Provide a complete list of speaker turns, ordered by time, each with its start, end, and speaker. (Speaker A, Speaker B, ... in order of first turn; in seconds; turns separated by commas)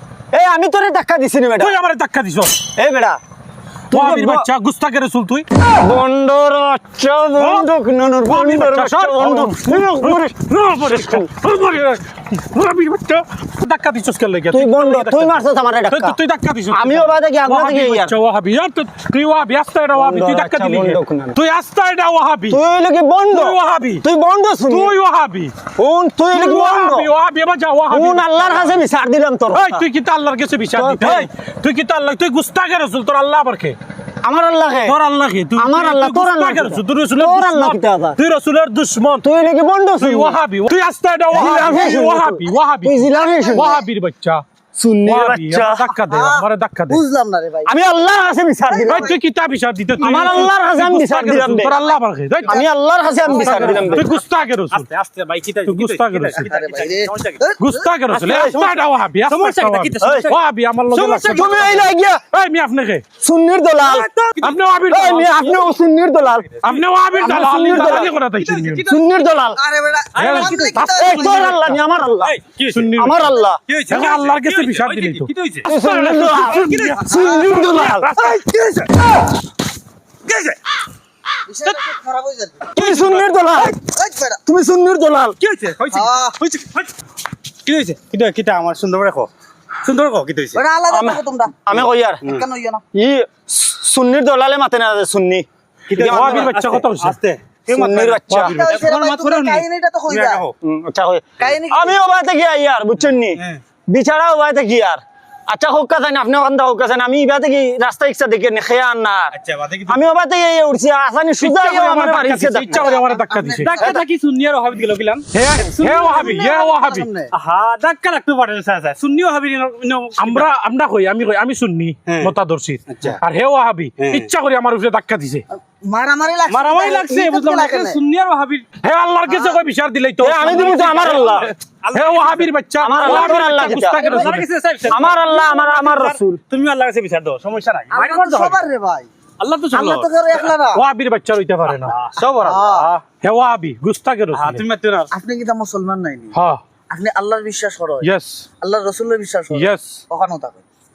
Speaker A: 0.3-1.8, Speaker B: 1.6-2.6, Speaker A: 2.8-3.2, Speaker A: 3.9-4.5, Speaker B: 3.9-5.5, Speaker A: 5.7-11.3, Speaker B: 7.4-7.7, Speaker B: 8.2-22.6, Speaker A: 14.5-16.2, Speaker A: 16.7-18.1, Speaker A: 19.9-21.4, Speaker A: 22.5-24.9, Speaker B: 23.3-24.0, Speaker B: 24.7-25.5, Speaker A: 25.8-27.1, Speaker B: 26.3-28.8, Speaker A: 27.9-29.9, Speaker B: 29.5-33.8, Speaker A: 30.8-31.3, Speaker A: 34.2-35.0, Speaker B: 34.9-39.2, Speaker A: 35.6-38.2, Speaker A: 39.2-40.4, Speaker B: 40.0-44.4, Speaker C: 41.3-42.0, Speaker A: 41.3-43.8, Speaker A: 44.8-45.9, Speaker B: 45.0-47.0, Speaker C: 46.1-47.7, Speaker A: 47.7-49.1, Speaker C: 48.7-49.2, Speaker B: 48.9-52.6, Speaker A: 50.0-51.8, Speaker C: 51.7-52.7, Speaker A: 52.5-54.1, Speaker C: 53.2-53.9, Speaker D: 53.3-54.1, Speaker B: 53.8-54.9, Speaker D: 54.7-57.4, Speaker B: 55.7-56.5, Speaker C: 56.5-57.9, Speaker B: 57.6-63.0, Speaker D: 58.1-60.4, Speaker A: 58.2-58.6, Speaker A: 60.0-60.3, Speaker D: 61.0-61.9, Speaker A: 61.2-62.2, Speaker C: 61.2-61.8, Speaker A: 63.2-64.1, Speaker D: 63.8-64.6, Speaker B: 64.4-65.6, Speaker A: 64.9-66.5, Speaker D: 66.6-66.9, Speaker B: 66.6-68.9, Speaker A: 67.2-68.1, Speaker D: 67.7-69.0, Speaker A: 68.9-69.6, Speaker C: 69.6-71.5, Speaker D: 70.1-71.7, Speaker B: 70.2-71.8, Speaker A: 70.9-72.3, Speaker D: 72.2-73.0, Speaker B: 72.7-78.5, Speaker A: 73.0-73.6, Speaker D: 73.7-75.7, Speaker A: 75.7-78.3, Speaker D: 76.5-77.1, Speaker D: 80.3-80.6, Speaker C: 81.5-82.7, Speaker A: 82.7-83.8, Speaker D: 82.8-83.2, Speaker C: 83.7-84.4, Speaker A: 84.5-85.4, Speaker D: 85.4-86.9, Speaker C: 85.9-86.4, Speaker D: 87.7-89.3, Speaker D: 89.8-90.6, Speaker C: 90.5-91.5, Speaker A: 90.9-92.2, Speaker D: 91.8-92.5, Speaker C: 92.2-92.8, Speaker A: 92.9-96.5, Speaker D: 95.9-100.5, Speaker B: 96.0-97.2, Speaker A: 97.7-98.7, Speaker C: 98.4-100.5, Speaker A: 100.6-109.3, Speaker C: 101.4-102.0, Speaker D: 109.3-110.0, Speaker A: 109.9-112.9, Speaker C: 111.5-112.0, Speaker B: 111.6-113.9, Speaker C: 112.7-113.9, Speaker D: 113.6-116.2, Speaker A: 113.8-114.0, Speaker B: 115.3-117.1, Speaker C: 115.8-117.3, Speaker D: 117.3-120.5, Speaker B: 120.2-125.4, Speaker D: 122.1-122.3, Speaker D: 122.9-123.2, Speaker D: 124.0-124.3, Speaker C: 125.5-128.0, Speaker D: 126.5-128.7, Speaker B: 128.8-134.5, Speaker C: 129.3-129.6, Speaker A: 130.2-131.5, Speaker D: 130.9-132.5, Speaker A: 132.8-134.4, Speaker D: 133.0-138.7, Speaker A: 134.9-136.4, Speaker C: 137.9-139.1, Speaker D: 139.4-140.6, Speaker C: 139.7-140.8, Speaker B: 140.7-141.9, Speaker D: 141.7-143.0, Speaker C: 142.4-142.9, Speaker B: 143.2-144.6, Speaker D: 144.3-145.1, Speaker C: 145.1-146.3, Speaker B: 146.3-146.6, Speaker C: 146.9-148.1, Speaker B: 148.0-148.5, Speaker C: 148.6-150.6, Speaker B: 149.5-150.0